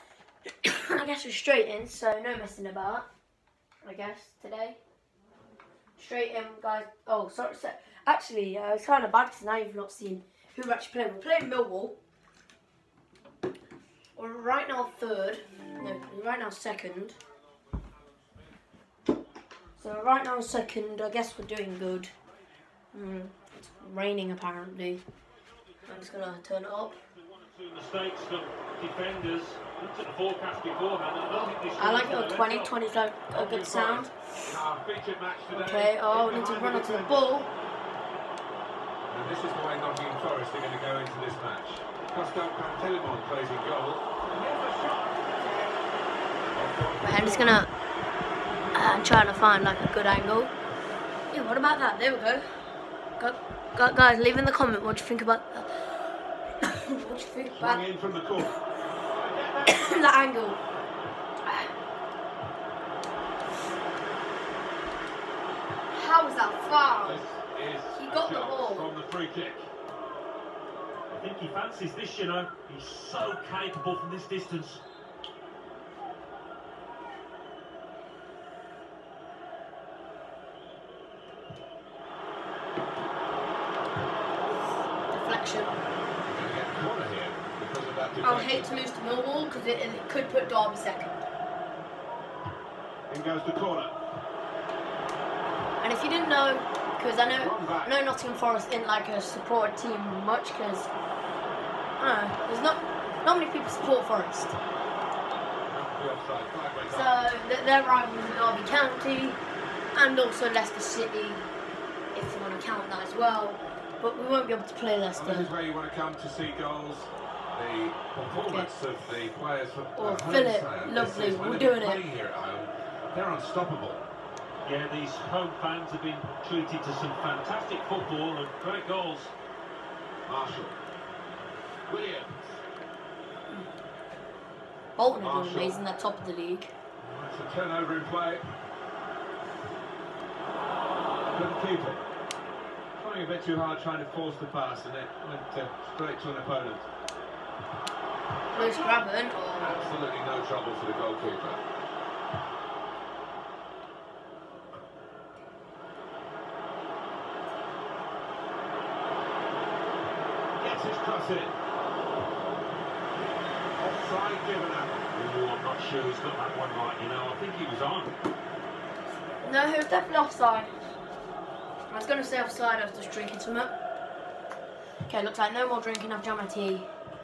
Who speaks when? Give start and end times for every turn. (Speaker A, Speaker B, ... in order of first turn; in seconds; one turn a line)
Speaker A: 0.6-3.1
Speaker A: 3.8-4.8
Speaker A: 6.0-12.0
Speaker A: 14.2-17.2
Speaker A: 19.8-22.1
Speaker A: 22.9-25.0
Speaker A: 25.8-27.0
Speaker B: 27.2-32.7
Speaker A: 31.3-34.3
Speaker B: 33.3-34.1
Speaker C: 34.5-37.4
Speaker A: 35.5-37.5
Speaker C: 39.1-45.2
Speaker A: 45.2-45.9
Speaker C: 46.5-47.6
Speaker A: 47.0-47.7
Speaker A: 48.7-50.5
Speaker A: 51.3-52.5
Speaker A: 53.2-55.9
Speaker A: 56.6-57.9
Speaker C: 57.5-58.5
Speaker C: 59.1-60.1
Speaker A: 59.7-60.6
Speaker A: 65.9-67.3
Speaker C: 67.0-69.7
Speaker A: 67.9-68.9
Speaker B: 71.1-74.8
Speaker A: 85.1-85.8
Speaker C: 86.3-88.7
Speaker A: 88.2-91.2
Speaker C: 93.1-93.9
Speaker A: 95.8-100.9
Speaker C: 97.3-98.0
Speaker A: 102.0-104.6
Speaker C: 105.7-107.1
Speaker A: 106.9-109.4
Speaker A: 109.9-111.5
Speaker A: 112.1-115.5
Speaker C: 115.2-124.0
Speaker A: 120.0-122.0
Speaker B: 124.6-129.3
Speaker C: 130.3-130.8
Speaker C: 131.9-132.6
Speaker A: 135.0-136.7
Speaker C: 135.2-135.8
Speaker C: 137.0-138.5
Speaker C: 141.3-142.0
Speaker C: 143.0-146.9
Speaker A: 148.5-149.9
Speaker C: 148.5-149.0
Speaker C: 149.6-151.6
Speaker C: 160.6-161.6
Speaker C: 163.8-165.1
Speaker B: 165.1-168.2
Speaker A: 169.4-170.7
Speaker A: 171.9-173.8
Speaker A: 175.1-176.9